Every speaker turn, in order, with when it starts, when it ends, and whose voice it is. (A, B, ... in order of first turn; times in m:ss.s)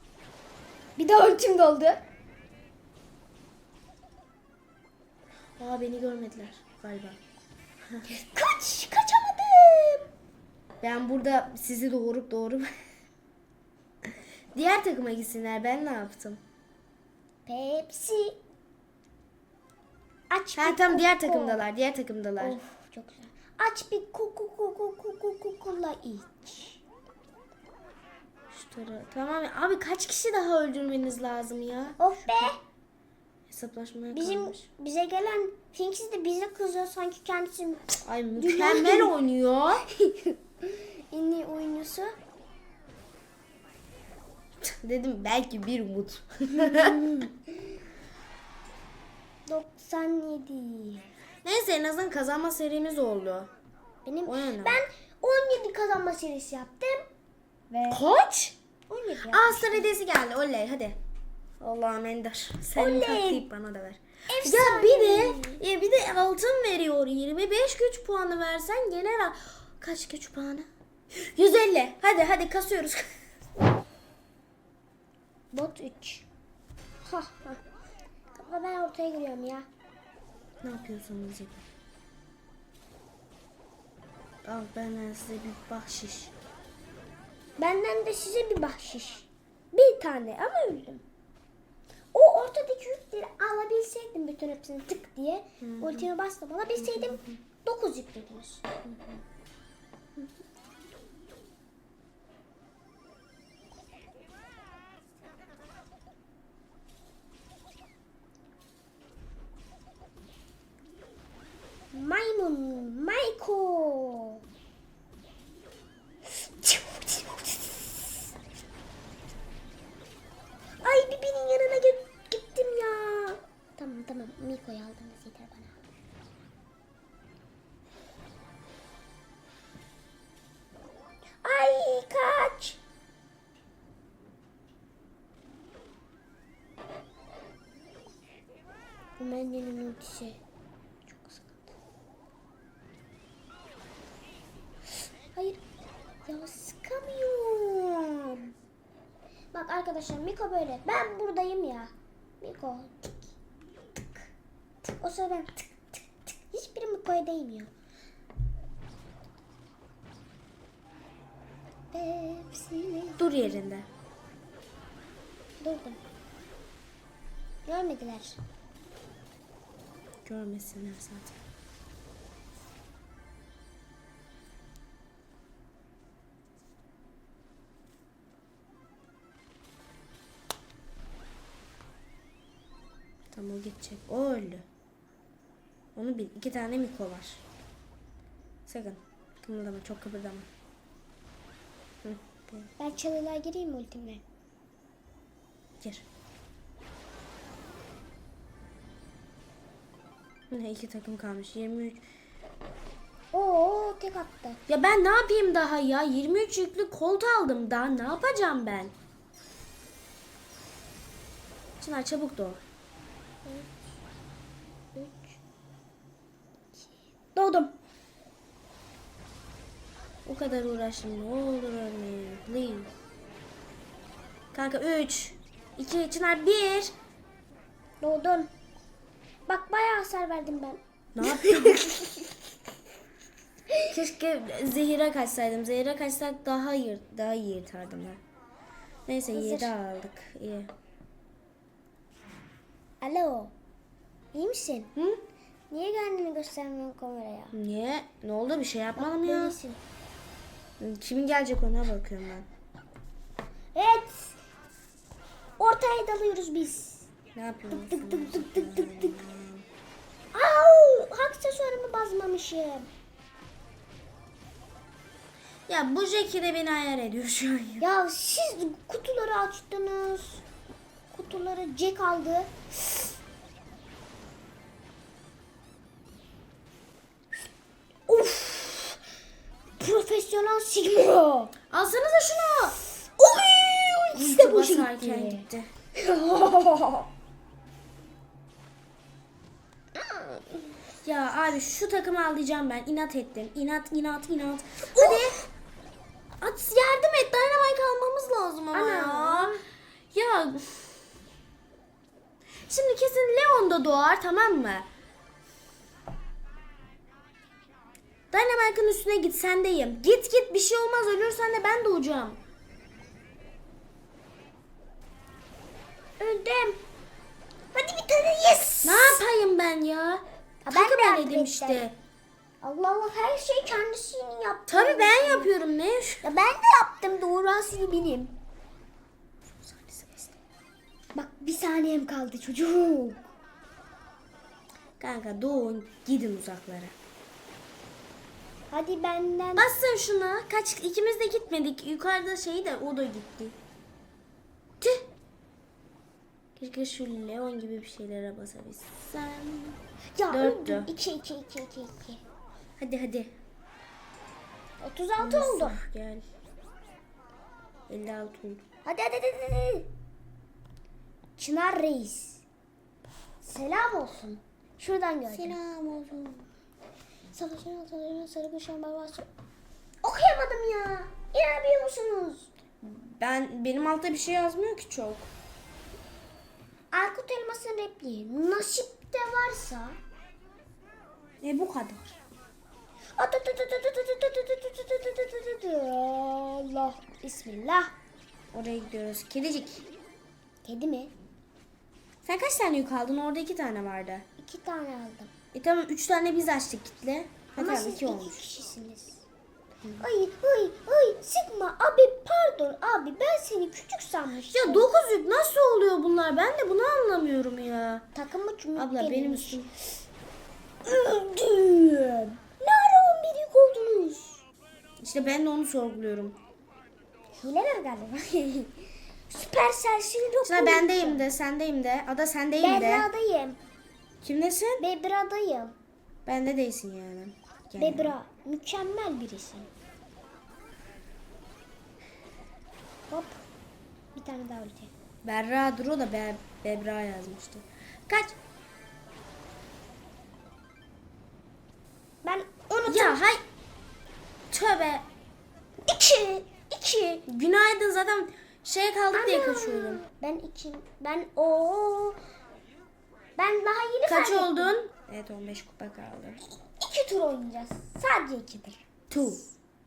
0:01.0-0:02.0 A
0:05.6-0:07.2 B
0:08.1-0:10.1 A
0:10.8-0:12.7 B
0:14.5-0:16.4 B
0:17.4-0:18.4 A
0:20.3-0:21.6 A
0:20.6-0:22.6 B
0:22.4-0:26.8 A
0:28.5-0:32.5 B
0:32.0-0:32.6 A
0:33.5-0:34.6 B
0:34.1-0:39.1 A
0:38.0-0:39.8 B
0:39.9-0:42.1 A
0:44.6-0:47.2 B
0:49.5-0:51.1 A
0:51.4-0:53.5 B
0:54.0-0:57.1 A
0:54.2-0:54.8 B
0:57.7-0:58.1 A
0:57.9-0:58.5 B
0:58.9-0:59.9 A
0:59.3-1:01.0 B
1:01.6-1:13.1 B
1:02.7-1:03.5 A
1:04.3-1:05.6 A
1:15.5-1:16.2 A
1:17.0-1:17.6 A
1:18.3-1:19.6 A
1:20.6-1:21.6 B
1:24.4-1:26.3 B
1:27.6-1:31.0 A
1:32.1-1:38.6 A
1:35.6-1:36.1 B
1:36.8-1:37.3 B
1:38.8-1:39.2 B
1:51.9-1:54.4 A
1:56.4-1:58.1 A
2:00.8-2:05.7 A
2:11.4-2:12.8 A
2:19.2-2:20.4 A
2:21.1-2:21.6 A
2:25.3-2:25.6 A
2:26.2-2:28.5 A
2:29.5-2:33.3 A
2:34.8-2:37.7 A
2:41.9-2:43.2 A
2:43.2-2:43.9 B
2:45.6-2:46.0 A
2:47.6-2:48.4 A
2:50.2-2:51.4 B
3:03.3-3:04.6 B
3:06.0-3:07.4 B
3:08.7-3:10.5 B
3:12.0-3:12.7 B
3:12.8-3:14.2 A
3:20.5-3:22.0 B
3:23.3-3:24.6 A
3:24.7-3:28.9 B
3:31.8-3:32.6 B
3:34.9-3:35.3 A
3:37.3-3:37.7 A
3:40.2-3:42.9 B
3:44.5-3:46.9 B
3:48.0-3:48.5 A
3:49.5-3:52.1 A
3:51.1-3:51.9 B
3:53.9-3:58.2 B
3:59.1-4:00.7 B
3:59.3-3:59.7 A
4:03.0-4:03.5 A
4:04.3-4:04.9 A
4:05.0-4:05.2 B
4:05.7-4:07.6 A
4:07.5-4:09.6 B
4:09.0-4:09.8 A
4:10.8-4:12.5 B
4:13.7-4:14.3 A
4:15.6-4:17.0 A
4:17.3-4:19.6 B
4:17.7-4:19.2 A
4:20.3-4:22.9 A
4:25.7-4:27.8 B
4:27.8-4:30.4 A
4:31.1-4:32.5 A
4:38.1-4:39.0 A
4:39.8-4:41.5 A
4:41.7-4:42.8 B
4:43.2-4:45.4 A
4:44.1-4:45.7 B
4:46.0-4:47.1 A
4:49.9-4:50.7 A
4:51.0-4:55.4 B
4:55.0-4:55.2 A
4:56.4-4:59.6 B
4:58.7-4:59.6 A
5:00.1-5:00.9 B
5:02.7-5:04.9 B
5:08.3-5:12.4 B
5:16.2-5:16.8 A
5:17.7-5:19.2 A
5:18.8-5:21.9 B
5:20.6-5:21.8 A
5:22.6-5:25.5 A
5:24.7-5:26.2 B
5:26.2-5:28.3 A
5:29.6-5:30.3 B
5:31.1-5:33.2 A
5:35.0-5:36.9 B
5:38.7-5:39.7 A
5:39.6-5:43.6 B
5:44.8-5:45.0 B
5:46.6-5:49.8 B
5:50.1-5:52.2 A
5:50.3-5:50.9 B
5:52.8-5:53.3 B
5:54.8-5:55.8 A
5:55.2-5:56.2 B
5:57.9-5:58.6 B
5:58.8-5:59.9 A
6:01.4-6:02.4 A
6:03.4-6:05.6 A
6:05.3-6:06.4 B
6:07.3-6:09.3 A
6:10.0-6:12.5 A
6:12.8-6:15.3 B
6:16.9-6:20.0 A
6:21.4-6:22.2 B
6:23.2-6:27.9 A
6:28.5-6:29.8 B
6:30.6-6:31.1 A
6:32.2-6:34.2 B
6:34.4-6:35.3 A
6:35.5-6:38.4 B
6:37.6-6:39.2 A
6:40.0-6:44.9 A
6:44.5-6:48.0 B
6:48.1-6:49.6 A
6:48.8-6:49.7 B
6:50.8-6:54.4 A
6:55.0-6:56.4 B
6:57.4-7:01.2 A
7:00.4-7:03.0 B
7:02.6-7:03.6 A
7:04.2-7:04.8 B
7:04.8-7:05.7 A
7:06.2-7:08.1 B
7:07.8-7:09.7 A
7:13.1-7:13.4 A
7:14.1-7:14.9 A
7:15.2-7:18.3 B
7:22.2-7:23.2 A
7:22.9-7:23.4 B
7:24.5-7:25.0 B
7:25.9-7:27.2 A
7:27.3-7:30.0 B
7:29.1-7:32.2 A
7:33.4-7:34.7 A
7:34.0-7:36.4 B
7:36.8-7:39.3 A
7:39.1-7:39.4 B